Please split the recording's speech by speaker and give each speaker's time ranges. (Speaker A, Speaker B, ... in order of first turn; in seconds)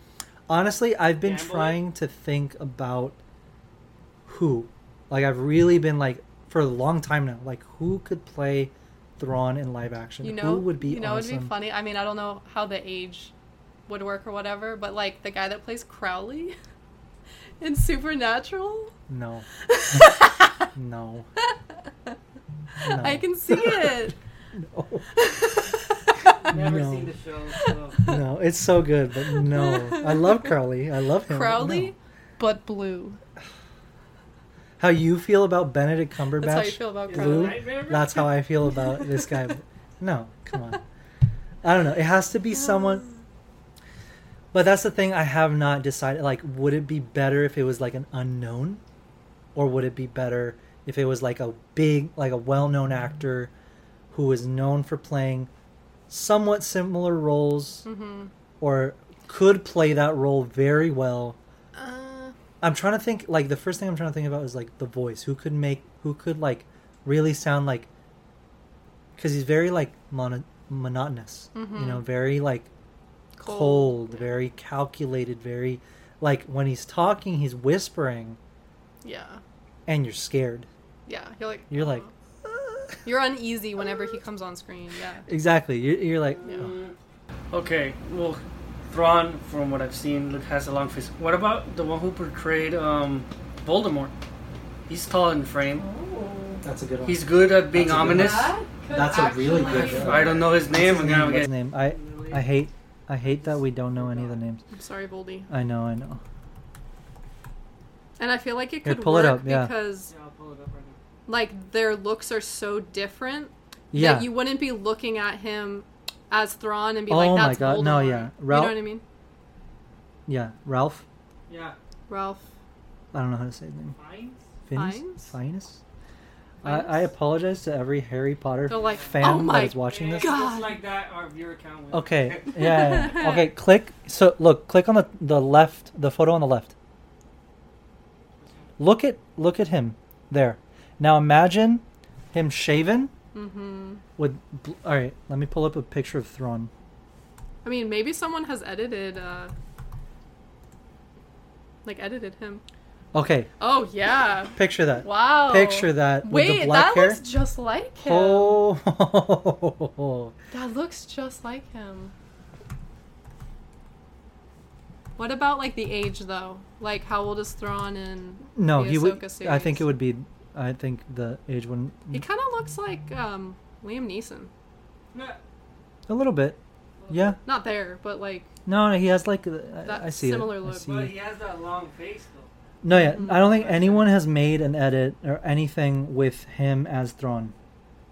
Speaker A: 0.5-3.2, 4.3-11.5, 19.1-20.2, 20.7-21.3, 22.8-25.2, 26.5-27.1, 28.0-31.9, 34.8-40.8, 41.6-43.1, 44.5-48.8, 49.5-53.5, 54.1-55.5, 56.1-57.8, 58.6-61.4, 62.6-67.9, 69.2-72.7, 73.4-78.4, 79.9-80.7, 81.7-82.9, 85.3-86.7, 96.6-104.6, 105.5-106.2, 108.8-109.7, 113.9-114.3, 117.1-118.8, 120.3-121.0, 123.1-124.0, 124.7-125.8, 126.6-130.3, 131.9-136.7, 138.8-143.1, 144.2-146.7, 153.1-153.5, 154.5-157.2, 158.0-160.3, 168.5-172.2, 176.1-176.6, 177.1-177.4, 178.7-181.1, 182.8-187.5
Speaker B: 1.2-1.8, 26.4-28.1, 37.1-38.3, 86.3-86.9, 87.5-94.1, 94.9-95.8, 97.0-98.5, 99.6-102.4, 103.2-104.4, 110.1-111.0, 121.5-121.8, 123.9-124.5, 128.7-133.1, 138.4-138.7, 175.1-175.4, 177.0-177.4, 180.8-182.5, 183.3-184.1
Speaker C: 10.2-13.3, 13.9-16.5, 17.6-18.9, 19.7-20.6, 22.8-24.1, 25.2-26.3, 29.4-30.3, 31.3-33.2, 36.4-37.7, 57.8-58.3, 61.7-62.3, 71.5-72.0, 73.3-74.3, 79.0-79.4, 81.1-82.1, 83.0-85.3, 95.8-96.6, 98.0-100.5, 104.7-105.5, 108.2-110.1, 111.3-119.0, 122.1-122.5, 124.7-125.3, 126.6-127.1, 128.7-130.8, 132.7-133.4, 143.3-144.0, 147.6-149.5, 151.8-152.6, 153.6-158.6, 160.5-162.1, 165.2-169.9, 172.1-174.5, 177.4-178.5, 179.8-181.0, 182.9-183.3